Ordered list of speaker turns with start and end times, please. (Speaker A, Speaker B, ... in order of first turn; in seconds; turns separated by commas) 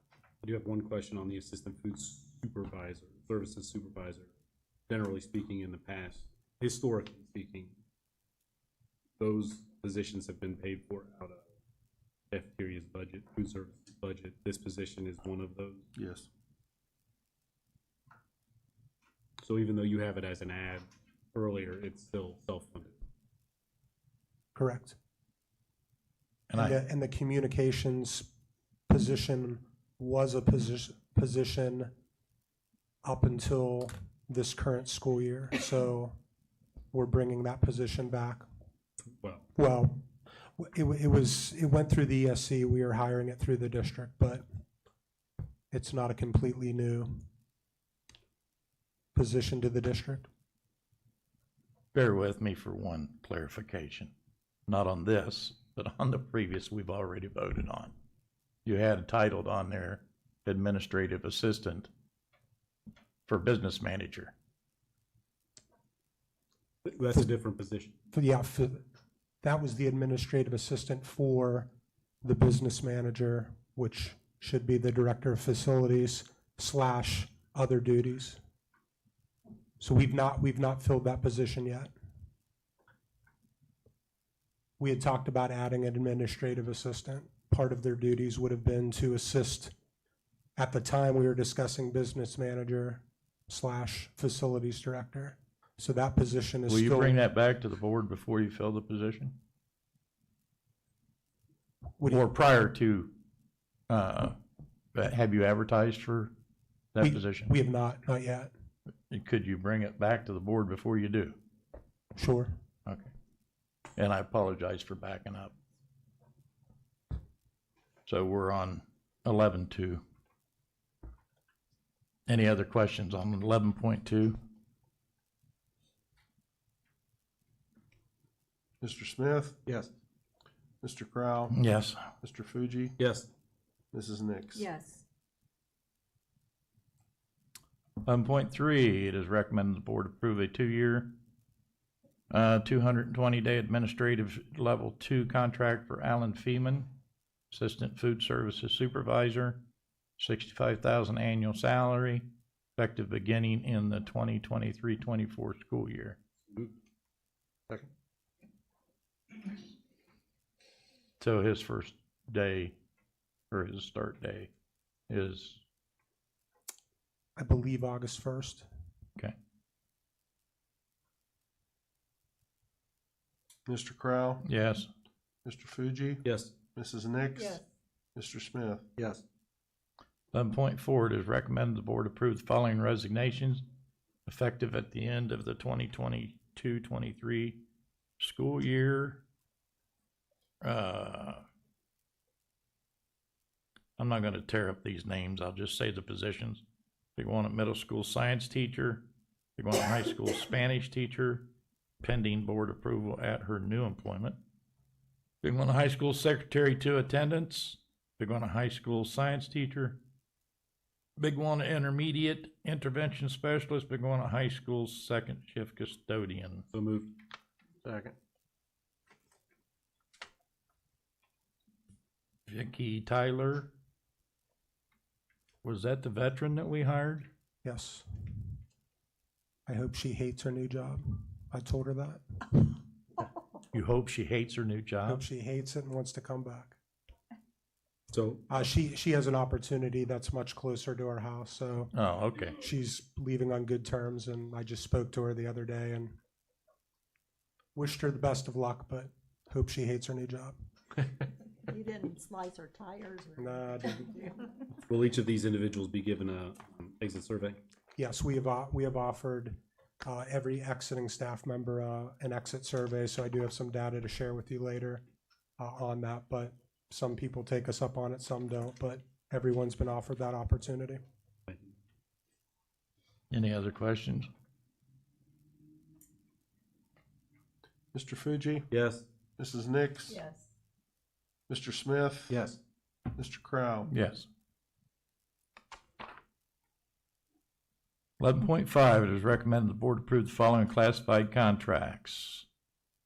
Speaker A: 0.4-4.3, Speaker A: 4.9-7.7, Speaker A: 9.2-11.4, Speaker A: 12.3-15.8, Speaker B: 15.9-16.3, Speaker A: 19.4-22.9, Speaker C: 24.5-24.9, Speaker D: 26.5-26.8, Speaker C: 26.5-28.3, Speaker C: 28.9-31.9, Speaker C: 33.0-36.1, Speaker C: 36.9-38.5, Speaker A: 39.2-39.4, Speaker C: 39.5-40.0, Speaker C: 40.6-44.4, Speaker C: 45.7-47.2, Speaker C: 49.1-50.3, Speaker D: 51.9-54.1, Speaker D: 54.7-57.9, Speaker D: 58.6-61.9, Speaker D: 63.3-64.3, Speaker A: 66.8-67.9, Speaker C: 68.1-68.8, Speaker C: 69.4-71.7, Speaker C: 72.2-78.4, Speaker C: 79.8-81.9, Speaker C: 84.8-89.7, Speaker C: 90.6-97.2, Speaker D: 96.7-99.3, Speaker C: 102.0-102.2, Speaker D: 102.1-103.1, Speaker D: 103.9-104.4, Speaker D: 104.9-106.3, Speaker D: 106.9-107.5, Speaker C: 107.0-108.5, Speaker D: 109.1-111.3, Speaker C: 112.2-112.5, Speaker D: 112.8-113.1, Speaker D: 114.0-115.5, Speaker D: 118.1-120.0, Speaker D: 122.3-124.3, Speaker B: 128.8-129.7, Speaker B: 130.8-131.5, Speaker D: 131.5-132.0, Speaker B: 132.2-132.9, Speaker A: 133.0-133.3, Speaker B: 133.9-134.7, Speaker E: 134.6-135.0, Speaker D: 138.0-141.1, Speaker D: 142.3-146.9, Speaker D: 147.5-149.6, Speaker D: 150.2-152.2, Speaker D: 152.8-156.2, Speaker D: 161.2-162.8, Speaker D: 163.5-164.5, Speaker D: 165.1-165.6, Speaker C: 167.4-168.7, Speaker B: 173.7-174.4, Speaker D: 174.4-174.9, Speaker B: 175.4-176.2, Speaker A: 176.2-176.5, Speaker B: 176.7-177.6, Speaker E: 177.3-177.6, Speaker B: 178.2-178.8, Speaker A: 179.0-179.2, Speaker D: 180.3-183.6, Speaker D: 184.3-187.6, Speaker D: 188.2-189.2, Speaker D: 190.6-191.4, Speaker D: 194.0-196.6, Speaker D: 197.2-199.0, Speaker D: 199.6-201.4, Speaker D: 202.0-204.4, Speaker D: 205.4-210.0, Speaker D: 211.2-216.7, Speaker A: 216.7-217.1, Speaker B: 217.8-218.1, Speaker D: 222.5-223.7, Speaker D: 225.6-227.3, Speaker C: 227.6-228.1, Speaker C: 229.7-232.7, Speaker D: 233.7-235.2, Speaker C: 235.0-236.8, Speaker A: 238.1-238.4, Speaker C: 238.5-241.9, Speaker D: 241.9-242.6, Speaker C: 242.5-246.1, Speaker C: 247.7-250.6, Speaker E: 251.7-254.4, Speaker C: 253.4-254.2, Speaker A: 254.9-257.6, Speaker C: 258.0-265.0, Speaker C: 265.6-271.0, Speaker A: 271.5-271.7, Speaker D: 273.3-274.3, Speaker B: 277.9-278.7, Speaker A: 278.7-279.1, Speaker B: 279.4-280.2, Speaker E: 280.1-280.4, Speaker B: 281.5-282.4, Speaker A: 282.3-282.6, Speaker B: 283.1-283.9, Speaker D: 283.9-284.3, Speaker D: 288.2-292.4